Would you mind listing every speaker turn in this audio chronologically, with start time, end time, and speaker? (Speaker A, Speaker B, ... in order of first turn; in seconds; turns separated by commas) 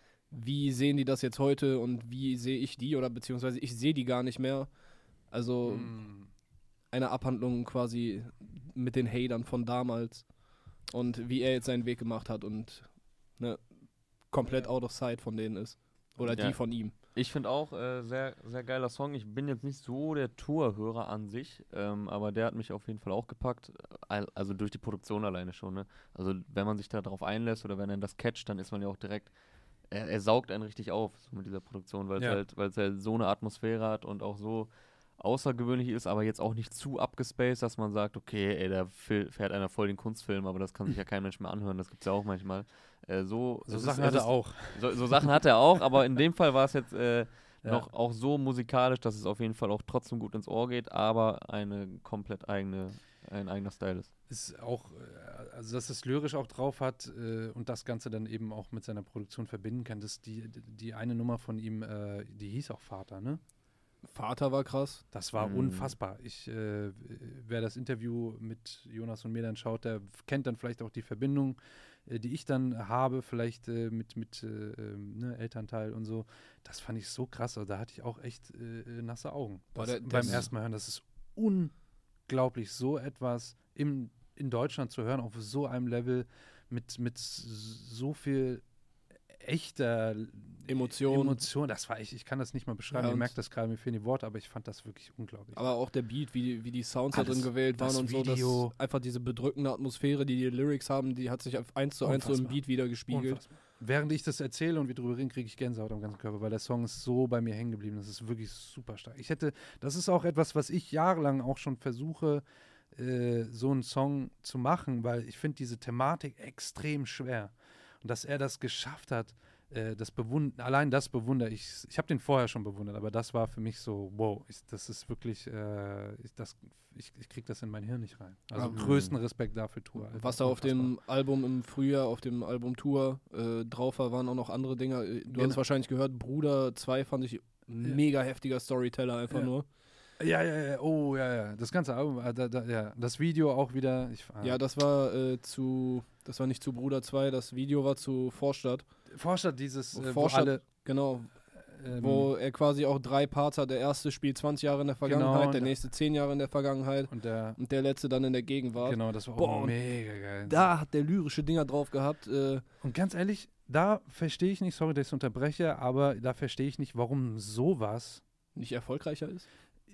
Speaker A: 0.3-4.7, Speaker A: 5.3-6.0, Speaker B: 5.6-6.3, Speaker A: 6.9-16.9, Speaker B: 16.2-16.5, Speaker C: 16.3-29.3, Speaker C: 29.9-54.1, Speaker B: 43.7-45.4, Speaker B: 54.3-63.4, Speaker A: 64.0-65.0, Speaker B: 65.1-81.8, Speaker C: 65.4-66.0, Speaker A: 79.8-80.5, Speaker B: 82.3-88.7, Speaker B: 89.3-95.6, Speaker A: 90.7-91.4, Speaker A: 92.9-93.3, Speaker A: 95.5-103.4, Speaker B: 97.1-98.7, Speaker B: 102.0-130.9, Speaker A: 128.6-128.9, Speaker C: 128.7-129.2, Speaker A: 130.1-139.7, Speaker B: 135.3-135.6, Speaker B: 140.2-144.6, Speaker A: 144.4-148.9, Speaker B: 149.1-150.7, Speaker A: 149.9-151.3, Speaker B: 151.7-152.3, Speaker A: 151.9-159.8, Speaker B: 155.1-155.8, Speaker B: 157.1-157.6, Speaker B: 158.8-160.7, Speaker A: 160.4-162.6, Speaker B: 162.8-168.2, Speaker A: 168.6-169.5